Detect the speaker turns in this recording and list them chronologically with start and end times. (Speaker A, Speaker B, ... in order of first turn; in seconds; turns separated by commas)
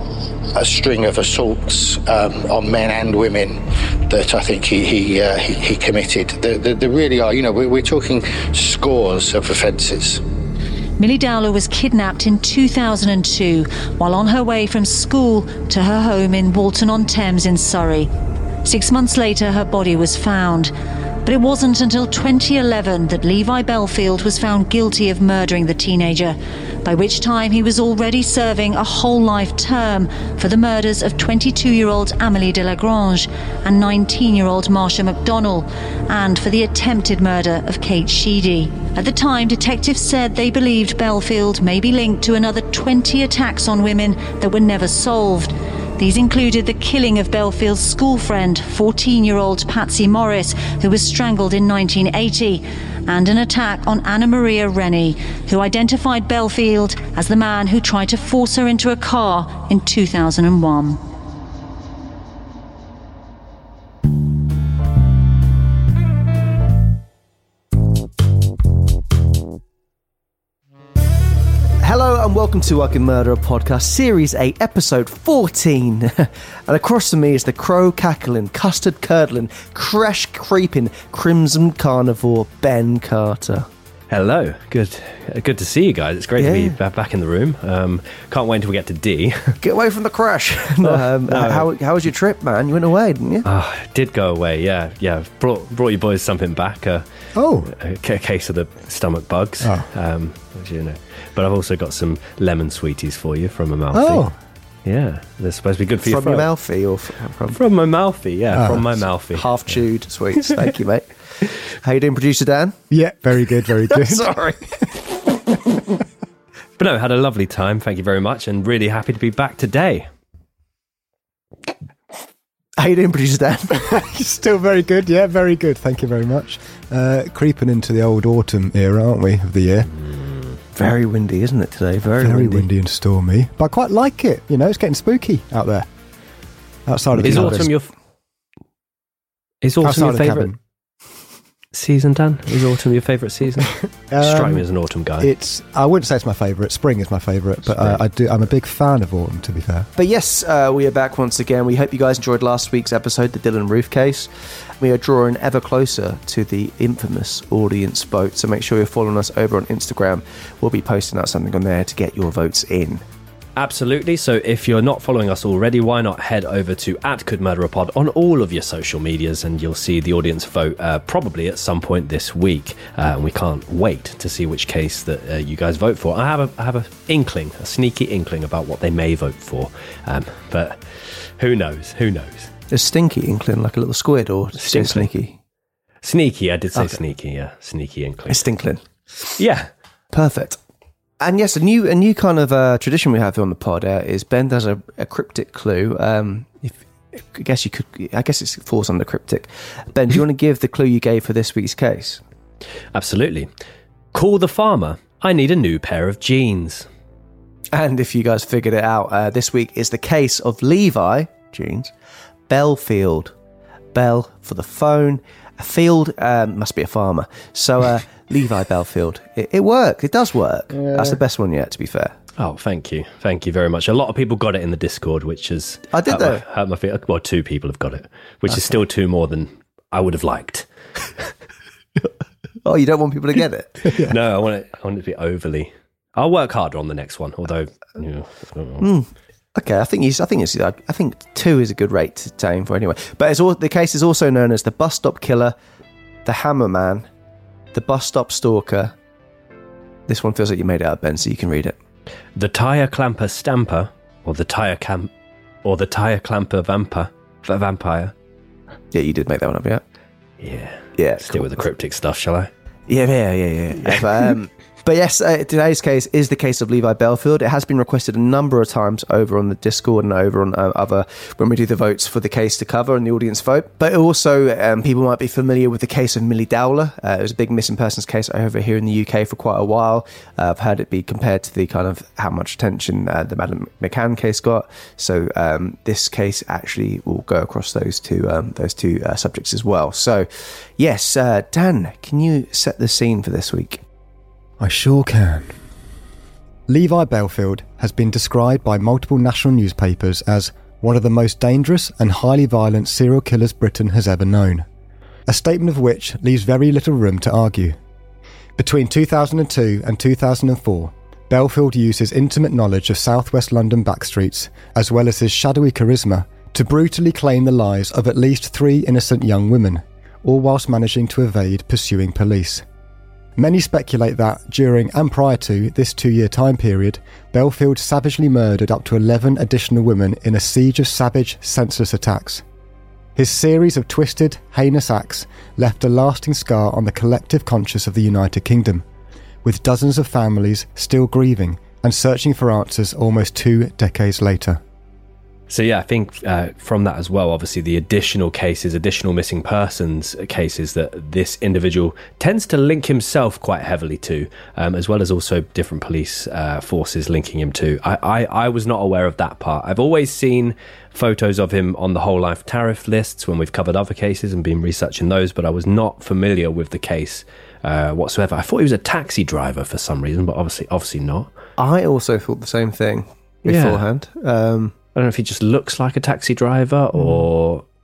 Speaker A: 0.6-10.2, Speaker B: 11.0-18.1, Speaker B: 18.6-20.7, Speaker B: 21.2-61.0, Speaker C: 71.8-83.7, Speaker D: 84.1-89.6, Speaker C: 86.4-86.8, Speaker C: 89.6-93.5, Speaker D: 90.8-91.7, Speaker D: 93.5-97.0, Speaker E: 97.3-97.7, Speaker D: 97.7-104.2, Speaker E: 103.9-104.3, Speaker D: 104.8-106.5, Speaker C: 106.0-107.6, Speaker D: 107.5-109.5, Speaker C: 109.3-112.8, Speaker E: 112.9-114.3, Speaker C: 113.8-114.6, Speaker D: 116.8-120.1, Speaker C: 122.8-123.8, Speaker E: 123.8-129.9, Speaker D: 130.0-130.6, Speaker C: 130.8-132.7, Speaker E: 132.2-135.9, Speaker E: 136.9-137.7, Speaker D: 137.2-137.9, Speaker D: 139.6-140.5, Speaker E: 139.8-140.6, Speaker D: 141.7-145.3, Speaker E: 144.1-144.7, Speaker E: 145.2-149.9, Speaker D: 147.7-148.0, Speaker C: 150.0-154.3, Speaker C: 154.8-163.0, Speaker D: 163.6-182.5, Speaker C: 182.7-185.4, Speaker D: 184.6-185.1, Speaker D: 186.0-188.5, Speaker C: 188.3-189.4, Speaker D: 189.4-189.7, Speaker C: 190.1-190.6, Speaker C: 191.2-202.2, Speaker D: 202.9-203.5, Speaker D: 204.1-206.9, Speaker C: 207.7-211.9, Speaker C: 212.5-213.3, Speaker C: 213.9-222.1, Speaker D: 222.4-230.7, Speaker C: 225.9-226.4, Speaker C: 232.7-234.2, Speaker D: 233.9-238.9, Speaker C: 238.8-245.6, Speaker C: 246.2-247.1, Speaker C: 247.7-248.9, Speaker C: 250.1-251.8, Speaker D: 252.3-255.1, Speaker D: 255.6-258.1, Speaker C: 258.9-259.8, Speaker D: 260.4-262.5, Speaker C: 261.0-261.7, Speaker C: 262.9-293.8, Speaker E: 294.6-295.6, Speaker E: 296.7-304.7, Speaker E: 305.3-307.8, Speaker E: 308.6-322.6, Speaker E: 323.4-332.4, Speaker E: 333.2-338.8, Speaker E: 339.4-344.6, Speaker D: 345.5-371.3, Speaker C: 371.6-374.7, Speaker D: 373.5-373.8, Speaker D: 374.9-377.6, Speaker C: 377.0-377.2